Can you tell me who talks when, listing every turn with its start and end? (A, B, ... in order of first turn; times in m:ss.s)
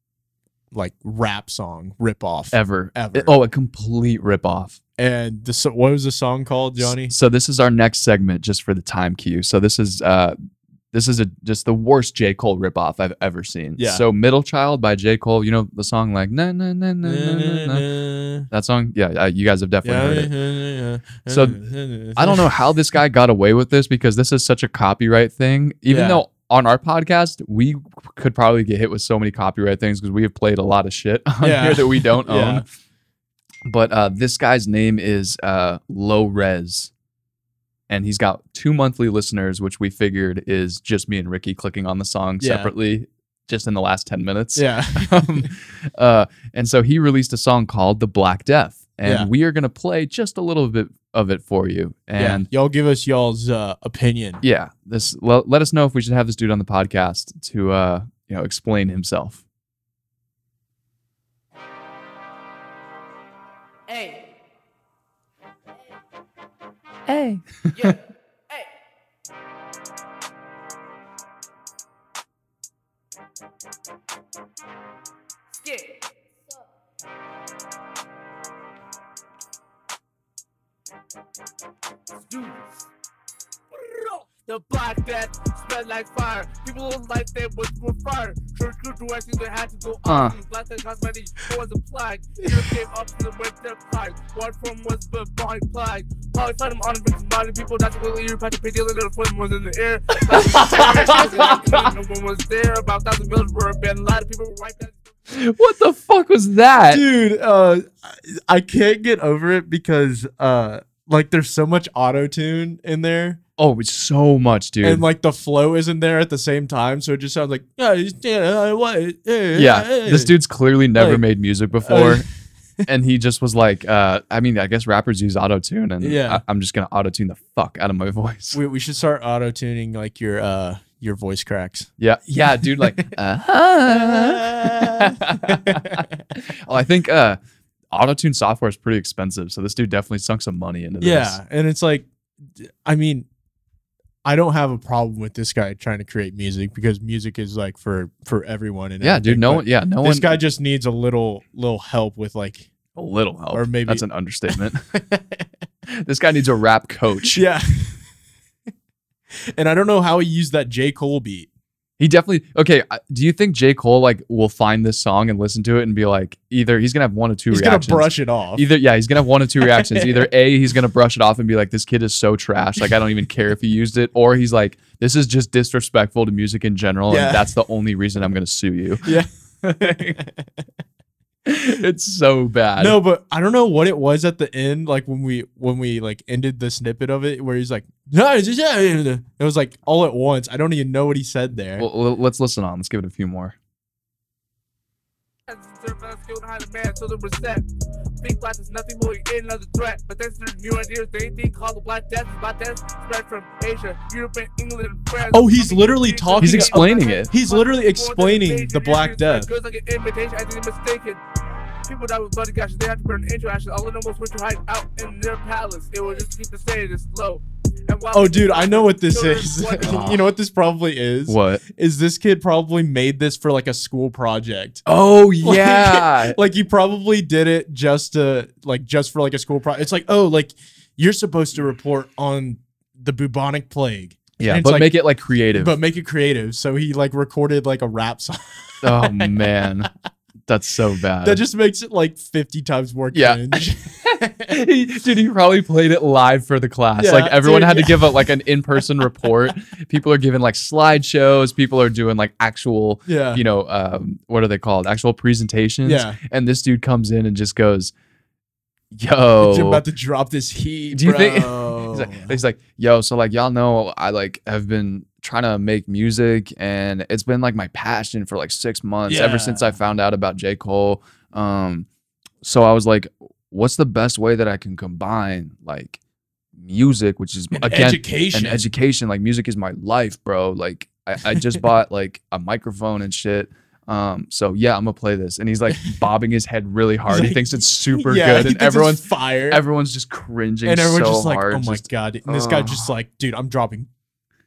0:00.7-0:03.3 A
0:02.5-0:04.8 B
0:05.0-0:07.1 A
0:06.8-0:10.4 B
0:10.9-0:17.9 B
0:13.8-0:14.0 A
0:17.0-0:18.5 A
0:18.5-0:20.3 B
0:19.8-0:22.6 A
0:21.3-0:21.6 B
0:22.1-0:32.7 B
0:25.9-0:26.2 A
0:31.4-0:32.7 A
0:33.7-0:36.9 B
0:37.9-0:52.5 B
0:42.4-0:42.7 A
0:44.6-0:45.5 A
0:49.0-0:49.3 A
0:52.2-0:54.4 A
0:54.4-0:59.4 B
1:03.9-1:04.3 C
1:07.1-1:07.9 B
1:15.6-1:16.0 C
1:22.3-1:22.6 C
1:23.7-1:45.0 C
1:30.1-1:30.4 B
1:40.3-1:41.9 B
1:40.7-1:41.2 A
1:45.3-1:47.0 B
1:46.9-1:53.4 A
1:53.6-1:55.0 B
1:54.8-2:00.3 A
1:59.5-2:02.3 B
2:01.0-2:01.2 A
2:01.8-2:02.3 A
2:02.8-2:08.6 B
2:06.0-2:06.4 A
2:08.5-2:11.9 A
2:12.0-2:17.4 B
2:12.6-2:13.1 A
2:13.9-2:16.2 A
2:17.9-2:21.4 B
2:21.0-2:23.3 A
2:24.2-2:32.7 A
2:29.0-2:30.4 B
2:33.0-2:34.9 B
2:33.5-2:34.0 A
2:34.6-2:35.5 A
2:35.9-2:37.4 B
2:37.3-2:38.1 A
2:39.5-2:41.5 A
2:42.0-3:00.2 B
2:47.5-2:48.7 A
2:49.6-2:50.3 A
2:57.1-2:57.5 A
2:59.0-3:00.5 A
3:01.5-3:03.0 B
3:02.8-3:11.9 A
3:11.8-3:13.6 B
3:15.5-3:17.6 C
3:18.2-3:31.2 C
3:25.2-3:29.5 A
3:26.4-3:27.3 B
3:31.9-3:40.0 C
3:38.1-3:44.8 A
3:39.8-3:40.2 B
3:41.3-3:41.6 B
3:44.9-3:46.4 B
3:45.4-3:54.9 A
3:54.4-3:55.8 B
3:55.6-3:59.9 A
3:58.8-3:59.9 B
4:00.5-4:01.4 B
4:01.2-4:04.5 A
4:03.1-4:17.9 B
4:07.0-4:08.3 A
4:13.1-4:13.4 A
4:15.8-4:16.2 A
4:18.9-4:19.8 B
4:19.4-4:22.4 A
4:20.9-4:31.9 B
4:29.1-4:29.8 A
4:32.4-4:36.0 B
4:36.6-4:52.9 B
4:37.5-4:38.7 A
4:47.1-4:49.6 A
4:50.6-4:53.9 A